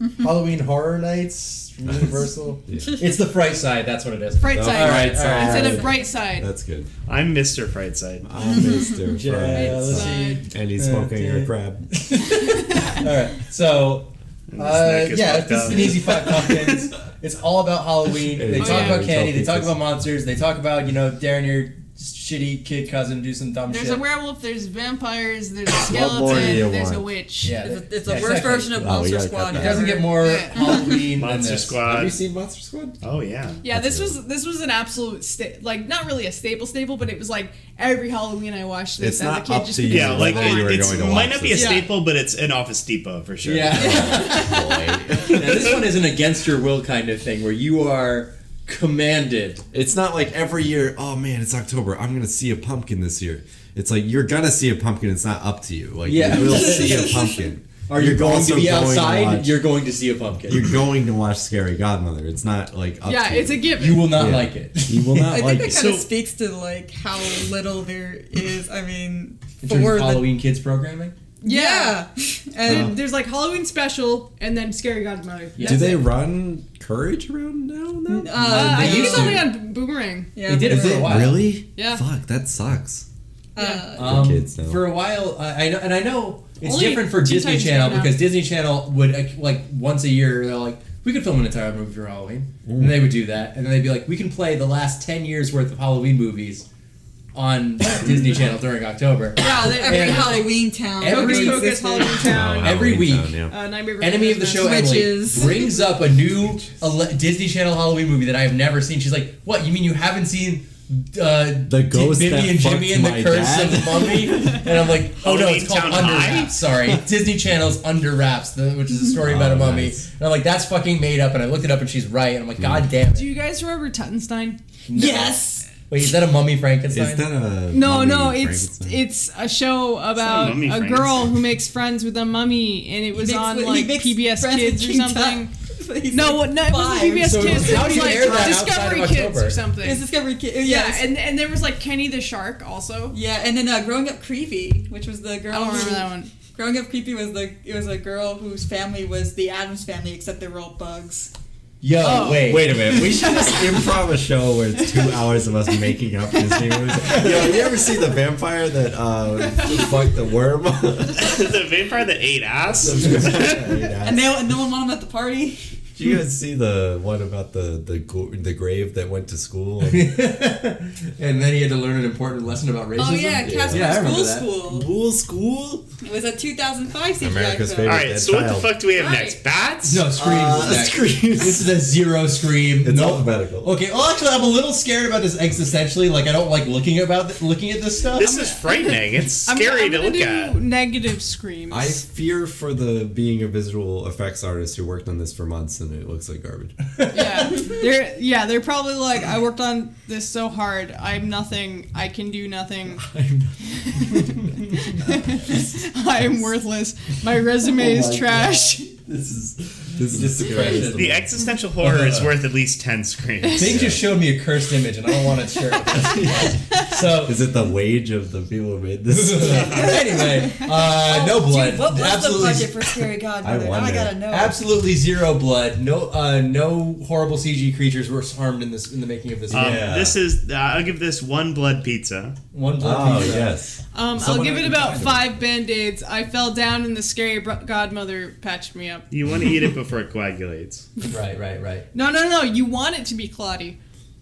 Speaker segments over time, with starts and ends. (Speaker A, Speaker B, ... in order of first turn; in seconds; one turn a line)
Speaker A: 0.2-5.9
Speaker B: 1.9-3.0
Speaker C: 4.4-6.5
Speaker B: 4.5-6.9
Speaker D: 7.1-8.3
Speaker B: 8.2-11.9
Speaker E: 8.6-8.9
Speaker A: 9.1-24.0
Speaker C: 9.5-10.4
Speaker D: 14.5-16.9
Speaker B: 18.2-19.8
Speaker C: 18.6-19.1
Speaker C: 23.7-27.6
Speaker B: 25.7-27.1
Speaker A: 27.4-29.0
Speaker E: 27.6-30.7
Speaker B: 28.8-30.0
Speaker A: 29.5-31.8
Speaker C: 30.0-31.1
Speaker D: 31.1-32.2
Speaker B: 31.8-33.0
Speaker D: 33.0-33.6
Speaker C: 33.6-40.8
Speaker B: 33.6-34.2
Speaker B: 39.0-41.7
Speaker D: 39.9-44.3
Speaker C: 41.5-42.0
Speaker A: 43.4-44.6
Speaker B: 43.4-45.8
Speaker A: 45.2-49.6
Speaker B: 49.7-59.5
Speaker A: 56.0-57.3
Speaker E: 56.3-57.5
Speaker A: 57.9-60.8
Speaker B: 60.5-65.9
Speaker C: 63.0-64.3
Speaker A: 63.7-65.3
Speaker E: 65.3-70.3
Speaker D: 65.7-66.1
Speaker A: 69.6-71.1
Speaker C: 71.4-72.0
Speaker E: 71.4-73.0
Speaker C: 72.6-76.0
Speaker A: 72.7-72.9
Speaker A: 75.5-76.0
Speaker B: 75.6-78.5
Speaker E: 78.1-79.5
Speaker A: 78.2-79.6
Speaker C: 78.5-80.3
Speaker E: 80.3-81.3
Speaker A: 80.4-81.5
Speaker B: 80.7-83.0
Speaker C: 81.7-82.0
Speaker E: 83.5-84.3
Speaker C: 83.6-83.9
Speaker A: 83.9-96.7
Speaker B: 84.0-84.9
Speaker C: 86.6-88.2
Speaker B: 92.6-93.1
Speaker A: 97.3-103.4
Speaker E: 99.4-102.1
Speaker C: 99.4-105.5
Speaker B: 102.2-103.5
Speaker A: 104.0-123.3
Speaker E: 104.5-105.7
Speaker B: 111.7-114.7
Speaker D: 115.2-116.5
Speaker B: 119.2-120.0
Speaker B: 122.6-122.9
Speaker C: 123.1-124.6
Speaker A: 124.9-127.3
Speaker E: 124.9-125.7
Speaker B: 126.9-129.0
Speaker C: 127.7-135.5
Speaker D: 130.1-131.3
Speaker E: 133.1-138.6
Speaker C: 136.1-140.0
Speaker A: 137.2-139.6
Speaker E: 139.8-141.1
Speaker C: 140.6-143.2
Speaker E: 143.1-151.3
Speaker C: 145.5-146.3
Speaker A: 151.8-152.9
Speaker C: 152.0-154.0
Speaker B: 152.3-161.4
Speaker D: 161.2-163.5
Speaker B: 162.8-164.3
Speaker A: 162.8-163.7
Speaker E: 164.0-165.8
Speaker B: 165.9-170.1
Speaker A: 169.8-174.5
Speaker E: 172.9-174.9
Speaker B: 173.4-174.1
Speaker B: 174.7-175.8
Speaker E: 176.0-178.0
Speaker B: 177.2-178.8
Speaker D: 177.8-180.0
Speaker E: 178.9-179.4
Speaker A: 179.8-188.3
Speaker B: 180.1-181.7
Speaker B: 182.8-183.7
Speaker D: 188.1-190.6
Speaker C: 188.2-192.0
Speaker B: 191.7-196.9
Speaker A: 196.9-197.7
Speaker C: 197.1-203.1
Speaker A: 203.0-204.9
Speaker C: 203.7-208.9
Speaker A: 207.6-212.3
Speaker B: 209.9-211.2
Speaker D: 210.7-213.9
Speaker A: 213.6-217.4
Speaker B: 213.6-214.0
Speaker C: 215.8-216.9
Speaker B: 216.1-216.5
Speaker B: 217.2-219.9
Speaker A: 219.1-223.0
Speaker D: 219.5-220.0
Speaker E: 220.6-224.5
Speaker B: 223.4-224.2
Speaker A: 224.3-229.9
Speaker B: 229.5-230.2
Speaker D: 229.5-232.3
Speaker A: 232.5-233.6
Speaker B: 232.8-235.3
Speaker C: 233.9-239.1
Speaker D: 239.1-240.9
Speaker A: 241.1-241.9
Speaker C: 241.9-243.8